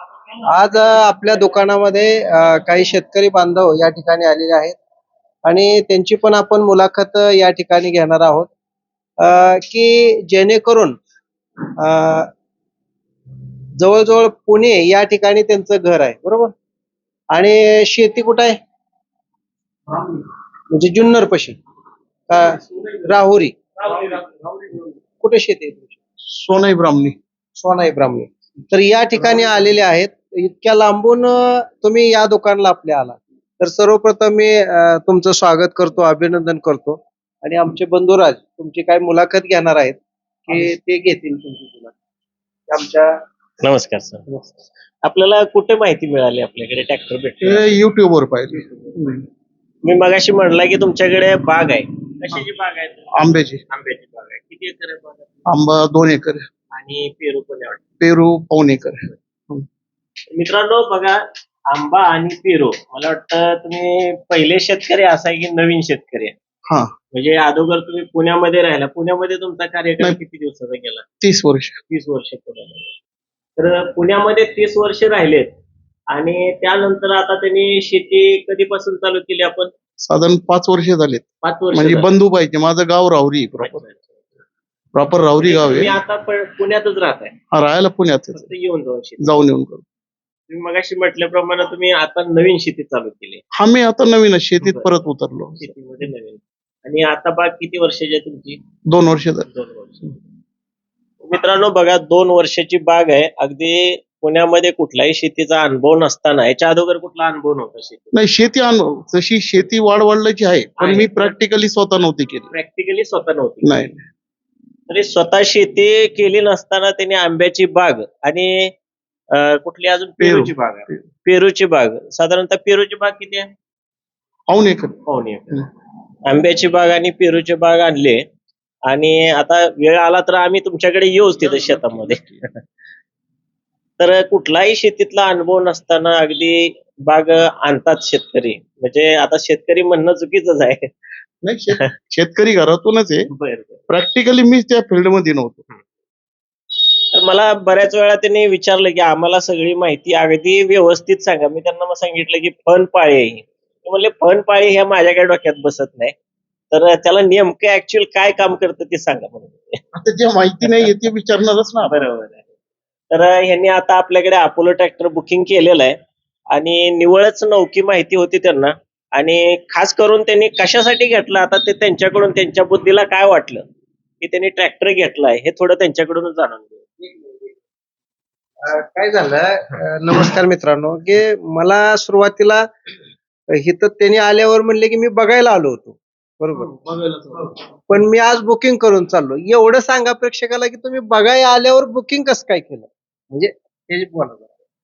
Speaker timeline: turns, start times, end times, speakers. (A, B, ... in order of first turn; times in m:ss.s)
0:00.5-0:04.8 A
0:05.5-0:08.5 A
0:09.2-0:11.0 A
0:11.8-0:12.3 A
0:13.8-0:16.5 A
0:17.3-0:18.6 A
0:19.9-0:20.2 A
0:20.7-0:21.6 A
0:22.3-0:23.6 A
0:25.2-0:26.0 A
0:26.3-0:27.2 B
0:27.6-0:41.9 A
0:29.2-0:29.7 B
0:42.7-0:43.1 A
0:43.6-0:44.5 C
0:45.0-0:47.8 C
0:47.4-0:49.2 B
0:49.8-0:55.3 C
0:53.1-0:53.6 B
0:55.5-0:56.5 B
0:56.7-0:57.8 C
0:58.0-0:59.7 B
1:00.3-1:01.2 C
1:01.7-1:06.4 C
1:07.1-1:11.0 C
1:11.2-1:11.8 B
1:11.9-1:12.9 C
1:13.6-1:15.5 C
1:16.1-1:19.7 C
1:20.0-1:23.8 B
1:21.4-1:22.1 C
1:23.6-1:24.2 C
1:25.0-1:26.0 B
1:25.4-1:27.4 C
1:27.5-1:28.5 B
1:28.3-1:29.4 C
1:29.2-1:29.8 B
1:30.5-1:33.4 C
1:33.6-1:35.7 B
1:34.6-1:35.0 C
1:35.6-1:38.6 C
1:38.9-1:39.5 B
1:39.5-1:40.2 C
1:41.2-1:48.1 C
1:48.1-1:52.5 B
1:50.8-1:51.4 C
1:52.5-1:53.8 C
1:53.6-1:54.0 B
1:54.9-1:58.7 C
1:59.3-2:03.5 C
2:00.2-2:01.0 B
2:04.5-2:05.0 B
2:05.1-2:05.7 C
2:06.3-2:08.2 C
2:08.9-2:12.6 C
2:11.4-2:12.4 B
2:14.0-2:20.9 C
2:21.4-2:23.3 B
2:23.3-2:23.8 C
2:23.9-2:25.6 B
2:27.1-2:36.1 C
2:36.7-2:39.8 C
2:40.0-2:42.0 B
2:40.6-2:41.0 C
2:41.9-2:42.4 C
2:43.1-2:46.0 C
2:46.5-2:53.6 C
2:54.2-2:56.9 C
2:58.6-3:02.7 A
3:03.6-3:06.7 A
3:06.5-3:07.6 B
3:07.9-3:14.5 A